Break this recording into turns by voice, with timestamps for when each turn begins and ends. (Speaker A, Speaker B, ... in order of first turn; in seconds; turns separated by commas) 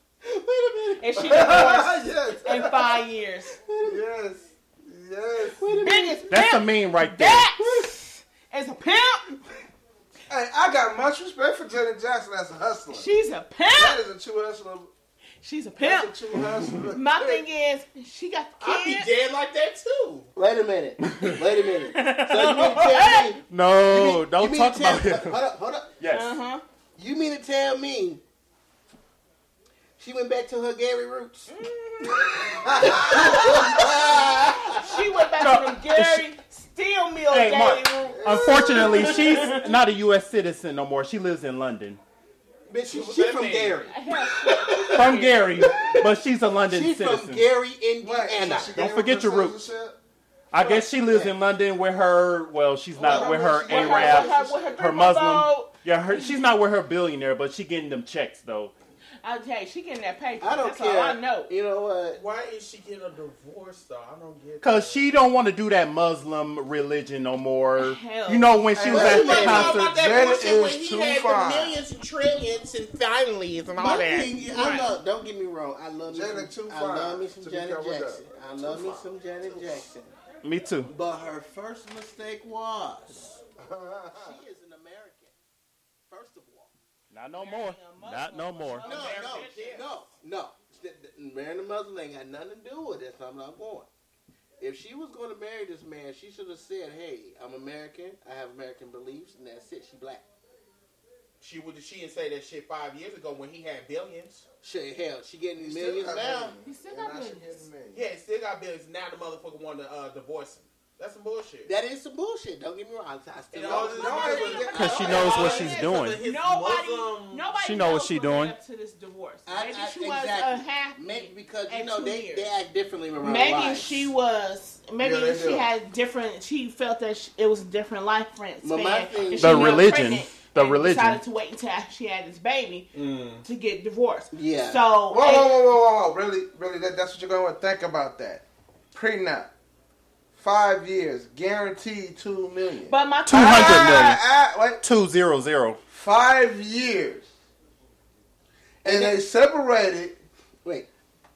Speaker A: 0.2-1.6, Speaker B: 1.0-3.6, Speaker C: 1.2-3.0, Speaker A: 3.6-4.0, Speaker C: 3.8-5.7, Speaker A: 5.5-6.3, Speaker B: 5.8-9.3, Speaker D: 6.3-7.5, Speaker C: 10.3-13.1, Speaker B: 12.9-14.0, Speaker C: 13.7-14.9, Speaker B: 15.4-16.2, Speaker C: 15.8-17.4, Speaker B: 16.9-19.1, Speaker E: 18.6-20.3, Speaker A: 20.4-25.9, Speaker B: 21.9-23.3, Speaker D: 23.5-25.4, Speaker D: 26.0-26.4, Speaker B: 26.1-26.6, Speaker A: 27.0-28.2, Speaker A: 30.0-31.5, Speaker B: 31.5-33.9, Speaker C: 32.4-34.6, Speaker A: 32.8-35.0, Speaker B: 34.6-39.7, Speaker D: 35.4-36.3, Speaker D: 37.3-42.0, Speaker C: 38.0-39.6, Speaker A: 42.7-45.1, Speaker E: 42.9-43.9, Speaker B: 43.9-45.7, Speaker D: 44.9-47.5, Speaker C: 45.7-46.1, Speaker A: 46.7-48.7, Speaker C: 48.0-50.0, Speaker D: 48.7-49.6, Speaker D: 50.5-58.7, Speaker A: 50.6-51.3, Speaker C: 53.0-54.8, Speaker B: 53.0-56.4, Speaker B: 59.2-61.5, Speaker A: 60.4-62.2, Speaker E: 62.1-65.0, Speaker D: 64.6-70.0, Speaker B: 67.8-69.1, Speaker C: 68.7-71.8, Speaker A: 68.9-69.7, Speaker E: 69.1-74.3, Speaker A: 73.8-80.1, Speaker B: 74.5-74.9, Speaker C: 76.1-79.8, Speaker D: 80.4-80.9, Speaker A: 80.9-83.4, Speaker C: 83.6-84.4, Speaker A: 84.1-85.3, Speaker A: 86.1-86.7, Speaker D: 87.1-88.9, Speaker B: 87.4-89.7, Speaker E: 88.8-89.9, Speaker A: 88.8-93.9, Speaker A: 94.6-100.2, Speaker E: 101.4-104.4, Speaker A: 104.6-106.5, Speaker C: 105.6-108.0, Speaker B: 106.6-107.6, Speaker E: 107.9-111.7, Speaker A: 111.7-115.4, Speaker E: 113.5-117.5, Speaker C: 113.6-115.7, Speaker B: 114.2-122.5, Speaker D: 114.7-116.2, Speaker D: 117.6-118.5, Speaker A: 119.5-124.1, Speaker B: 123.2-132.9, Speaker C: 125.0-125.7, Speaker A: 128.6-129.9, Speaker D: 129.4-131.2, Speaker E: 132.9-133.4, Speaker B: 133.4-135.6, Speaker A: 134.3-134.8, Speaker C: 135.1-139.5, Speaker C: 140.3-144.8, Speaker B: 142.9-144.1, Speaker D: 143.3-144.2, Speaker D: 144.8-145.8, Speaker C: 145.9-147.3, Speaker A: 148.8-149.2, Speaker C: 148.8-150.2